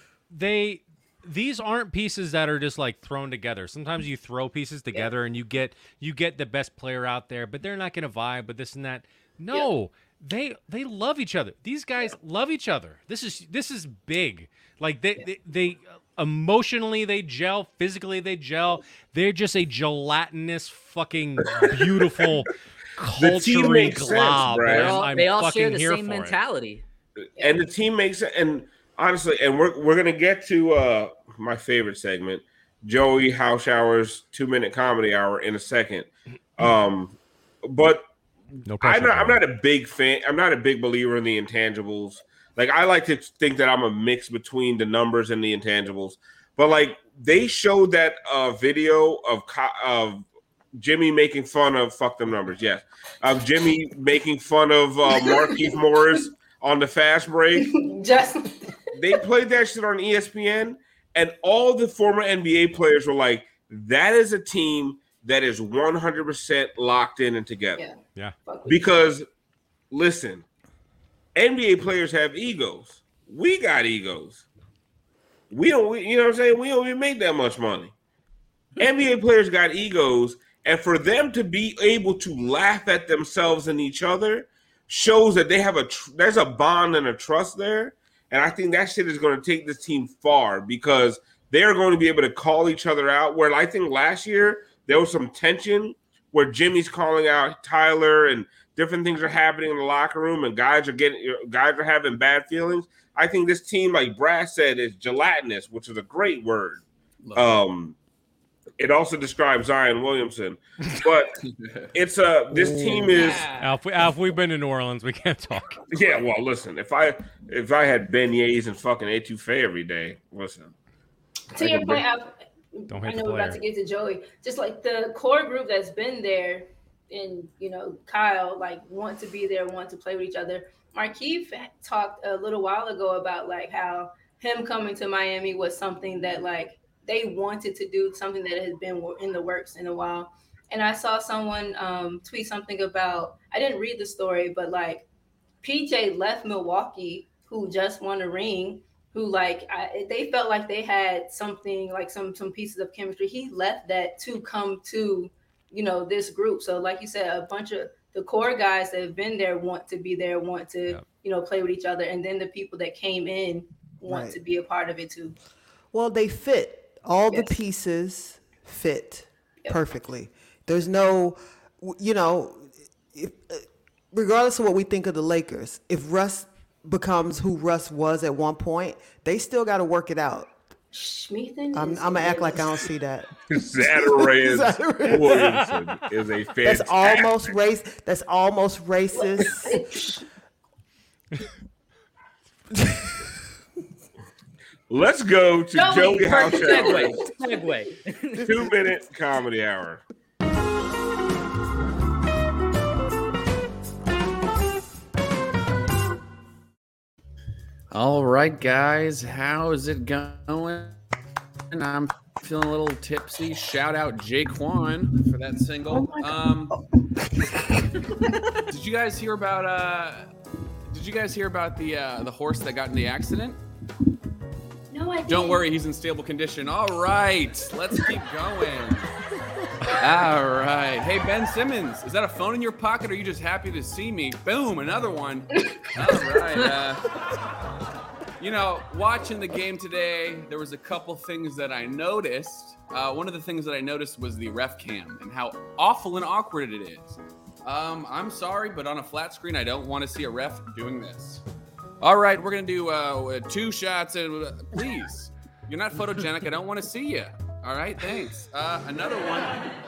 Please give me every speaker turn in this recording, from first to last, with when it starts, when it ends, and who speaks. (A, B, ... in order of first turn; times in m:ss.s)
0:00.3-0:26.4 A
0:21.5-0:21.9 B
0:23.2-0:25.0 B
0:24.6-0:26.8 C
0:27.2-0:38.0 B
0:27.4-0:27.6 D
0:38.7-0:39.4 A
0:38.8-0:57.6 B
0:55.1-0:55.8 D
0:57.6-0:58.7 D
0:58.9-1:07.8 B
1:07.8-1:08.9 D
1:08.7-1:09.3 B
1:09.9-1:10.4 B
1:11.4-1:14.4 B
1:15.5-1:17.9 B
1:18.8-1:46.8 B
1:47.2-1:47.6 E
1:47.4-1:48.0 B
1:48.8-1:51.4 B
1:51.5-1:51.9 E
1:51.9-1:53.5 B
1:52.6-1:53.1 F
1:53.6-1:55.8 A
1:55.9-2:00.7 B
2:01.6-2:25.1 D
2:01.6-2:02.0 B
2:02.9-2:03.6 A
2:25.6-2:45.4 D
2:44.0-2:44.4 F
2:45.9-3:00.5 F
2:47.3-2:47.6 D
3:00.9-3:02.8 D
3:01.7-3:05.7 F
3:03.5-3:07.6 B
3:06.6-3:09.8 F
3:09.1-3:10.3 D
3:14.9-3:17.2 B
3:15.7-3:17.3 D
3:16.6-3:18.5 C
3:18.4-3:20.0 B
3:27.9-3:31.0 E
3:31.7-3:36.8 E
3:36.0-3:36.3 D
3:38.7-3:40.3 E
3:40.9-3:43.6 E
3:44.9-3:45.6 D
3:45.3-3:49.1 E
3:49.9-3:57.1 E
3:55.6-3:55.9 D
3:58.4-4:11.4 E
4:12.0-4:19.6 E